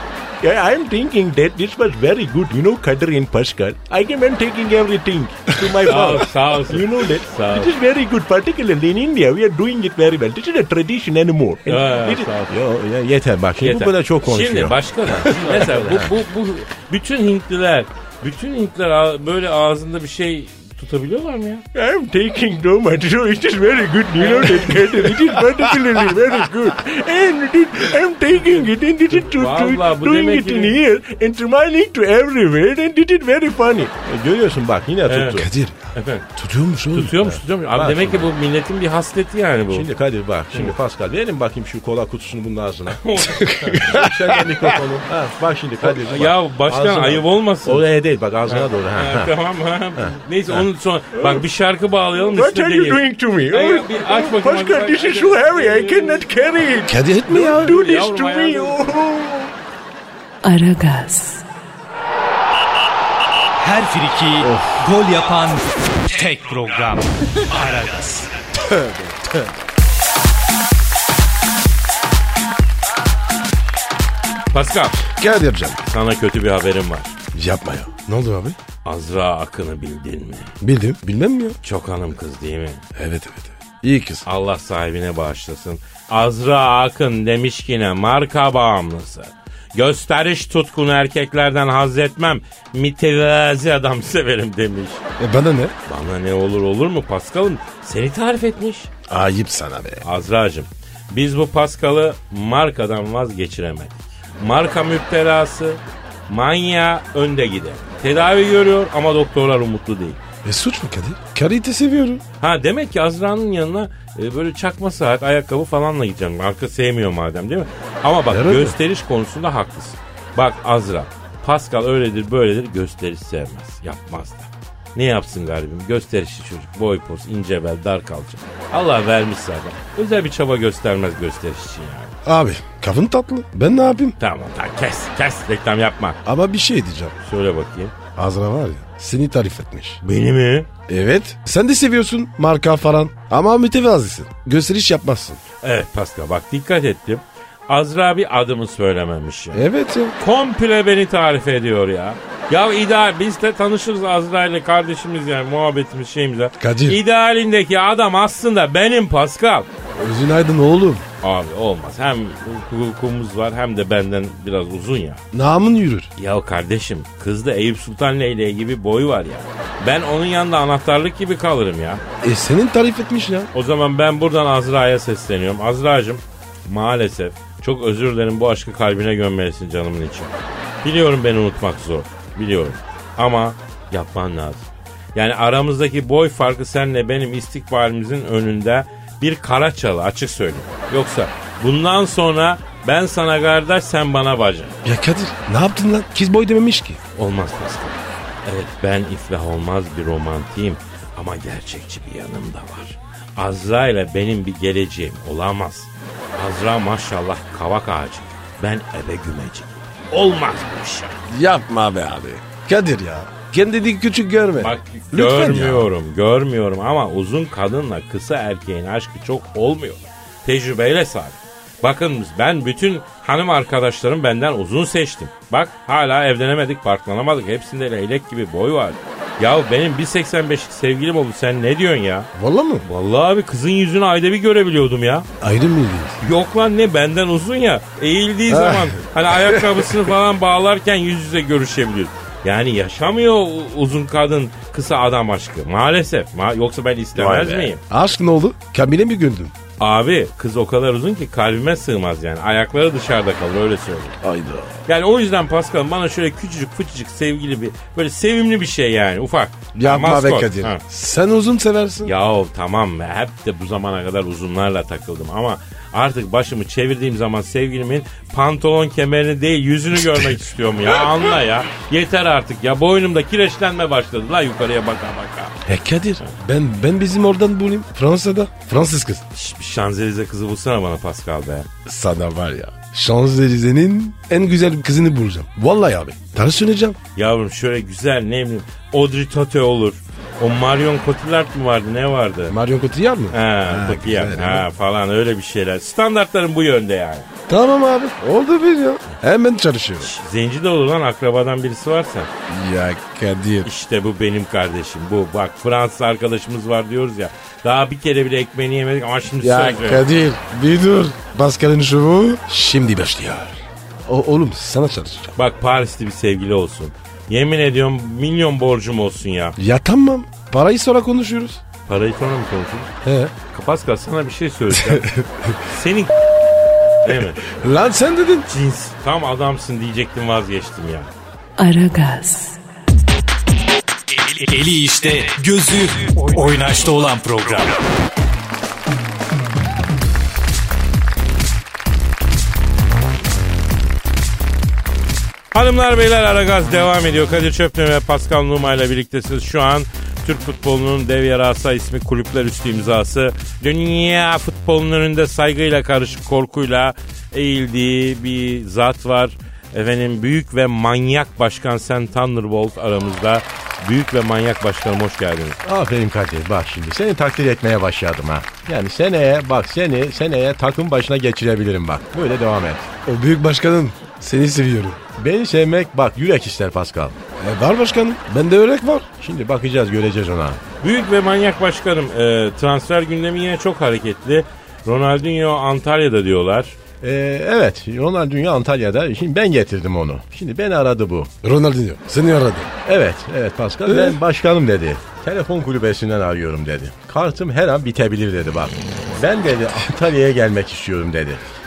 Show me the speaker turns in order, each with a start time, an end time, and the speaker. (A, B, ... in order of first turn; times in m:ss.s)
0:00.4-0:16.1 A
0:05.8-0:07.7 B
0:11.6-0:12.5 B
0:13.6-0:21.6 B
0:21.7-0:35.5 A
0:24.2-0:25.0 B
0:28.3-0:30.8 B
0:35.0-0:35.4 B
0:35.4-0:35.8 C
0:35.9-0:36.2 B
0:36.3-0:37.2 C
0:36.9-0:39.9 B
0:37.7-0:38.3 A
0:39.7-0:43.0 A
0:40.5-0:40.8 B
0:42.9-0:44.1 B
0:43.5-0:44.1 C
0:43.8-0:49.3 A
0:45.8-0:47.8 B
0:48.5-0:56.3 B
0:50.0-0:50.6 A
0:51.2-0:51.4 A
0:52.2-0:56.9 A
0:56.9-0:57.8 C
0:57.3-0:58.8 B
0:57.5-0:59.5 A
1:00.4-1:01.4 D
1:03.6-1:08.3 E
1:04.4-1:04.8 C
1:08.6-1:09.5 C
1:14.5-1:15.0 B
1:15.2-1:15.8 C
1:15.8-1:17.1 B
1:17.3-1:18.6 C
1:18.8-1:20.5 B
1:20.6-1:21.6 C
1:21.6-1:22.8 B
1:22.9-1:24.2 C
1:24.2-1:35.0 B
1:35.2-1:35.7 C
1:35.9-1:38.9 B
1:39.1-1:40.0 C
1:40.0-1:50.2 B
1:50.4-1:52.2 C
1:52.4-2:12.1 B
1:58.3-1:58.8 C
2:12.2-2:14.2 C
2:14.2-2:16.2 B
2:16.2-2:17.1 C
2:17.2-2:17.9 B
2:18.2-2:20.0 C
2:20.0-2:20.7 B
2:20.9-2:25.4 C
2:25.6-2:29.6 B
2:29.5-2:30.1 C
2:30.2-2:39.7 B
2:36.6-2:37.0 C
2:39.9-2:41.0 C
2:41.2-2:45.2 B
2:45.3-2:46.1 C
2:46.2-2:52.0 B
2:52.2-2:53.5 C
2:53.5-3:00.3 B
3:00.8-3:14.7 B
3:14.8-3:17.0 C
3:17.2-3:31.2 B
3:31.3-3:35.9 C
3:34.6-3:52.3 B
3:52.3-3:52.8 C
3:52.8-3:55.3 B
3:55.4-3:56.2 C
3:56.2-4:07.8 B
3:58.5-4:00.0 C
4:07.2-4:09.5 C
4:09.8-4:14.2 B
4:14.2-4:14.8 C
4:14.9-4:20.8 B
4:19.8-4:22.1 C
4:22.0-4:35.6 B
4:35.6-4:39.2 C
4:39.3-4:41.7 B
4:41.8-4:47.0 C
4:47.2-4:52.6 B
4:52.5-4:54.7 C
4:53.3-4:57.3 B
4:57.5-5:00.1 C
5:00.0-5:02.3 B
5:02.5-5:03.7 C
5:03.6-5:10.1 B
5:09.4-5:15.3 C
5:15.4-5:19.5 B
5:19.6-5:21.6 C
5:21.8-5:22.9 B
5:23.0-5:23.3 C
5:23.5-5:25.0 B
5:24.7-5:25.6 C
5:25.6-5:26.1 B
5:27.0-5:27.4 B
5:27.4-5:28.5 C
5:28.5-5:31.1 B
5:31.6-5:32.6 D
5:34.2-5:37.8 E
5:45.5-6:05.6 B
6:05.6-6:12.9 A
6:13.0-6:15.0 C
6:15.2-6:17.2 A
6:17.4-6:19.0 C
6:19.2-6:20.6 A
6:20.8-6:26.7 B
6:27.0-6:31.3 A
6:31.4-6:32.7 C
6:32.8-6:41.4 A
6:33.8-6:34.2 C